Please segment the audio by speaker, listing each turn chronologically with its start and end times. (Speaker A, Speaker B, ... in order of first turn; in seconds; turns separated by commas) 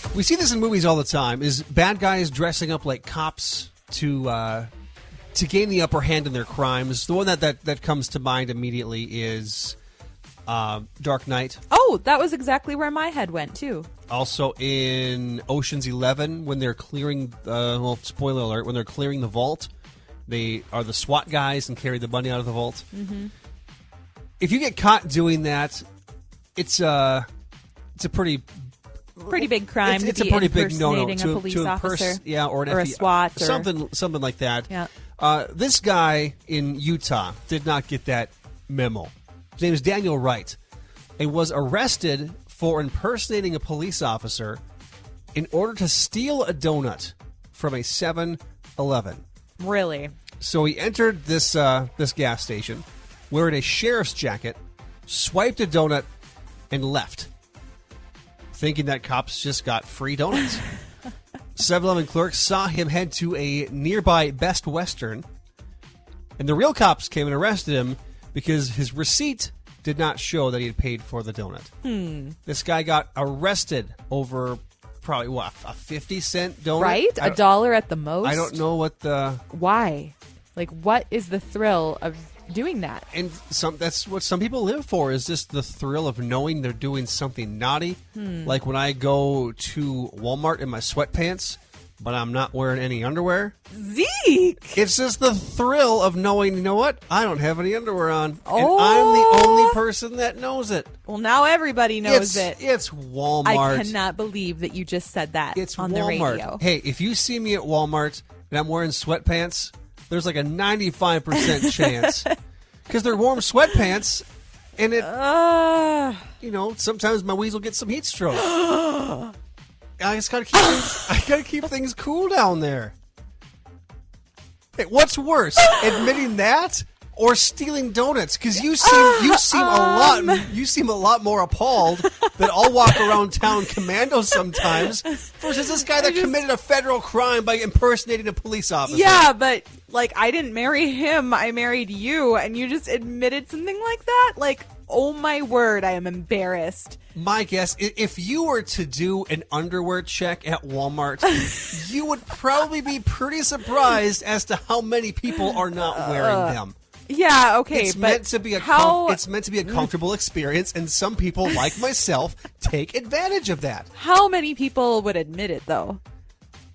Speaker A: 0.1-4.7, Speaker A: 5.3-9.8, Speaker A: 10.5-11.6, Speaker B: 11.7-13.9, Speaker A: 14.1-19.7, Speaker A: 20.3-22.9, Speaker B: 22.9-23.3, Speaker A: 24.4-25.8, Speaker A: 26.6-27.2, Speaker A: 28.0-28.6, Speaker A: 29.1-40.6, Speaker B: 29.3-33.7, Speaker A: 41.2-44.6, Speaker A: 45.3-49.2, Speaker B: 49.6-50.1, Speaker A: 50.4-56.0, Speaker A: 56.7-57.3, Speaker A: 58.5-60.6, Speaker A: 61.5-65.2, Speaker A: 66.4-71.7, Speaker B: 71.8-72.4, Speaker A: 72.5-77.4, Speaker B: 76.8-78.6, Speaker A: 78.2-79.4, Speaker B: 79.5-83.1, Speaker A: 83.1-93.5, Speaker B: 88.1-88.6, Speaker B: 93.7-94.8, Speaker A: 94.7-100.9, Speaker B: 98.5-99.8, Speaker B: 101.1-102.6, Speaker A: 102.0-104.0, Speaker B: 103.4-106.6, Speaker A: 105.5-112.3, Speaker B: 111.3-112.3, Speaker A: 112.9-114.2, Speaker A: 114.8-115.1, Speaker B: 115.0-116.3, Speaker A: 116.4-118.5, Speaker B: 118.3-119.3, Speaker A: 120.0-122.9, Speaker A: 124.8-139.3, Speaker B: 128.8-130.5, Speaker B: 132.0-133.2, Speaker B: 134.4-136.4, Speaker B: 138.8-147.0, Speaker A: 147.1-156.7, Speaker B: 151.4-151.7, Speaker B: 155.3-159.9, Speaker A: 157.7-163.9, Speaker B: 163.9-166.0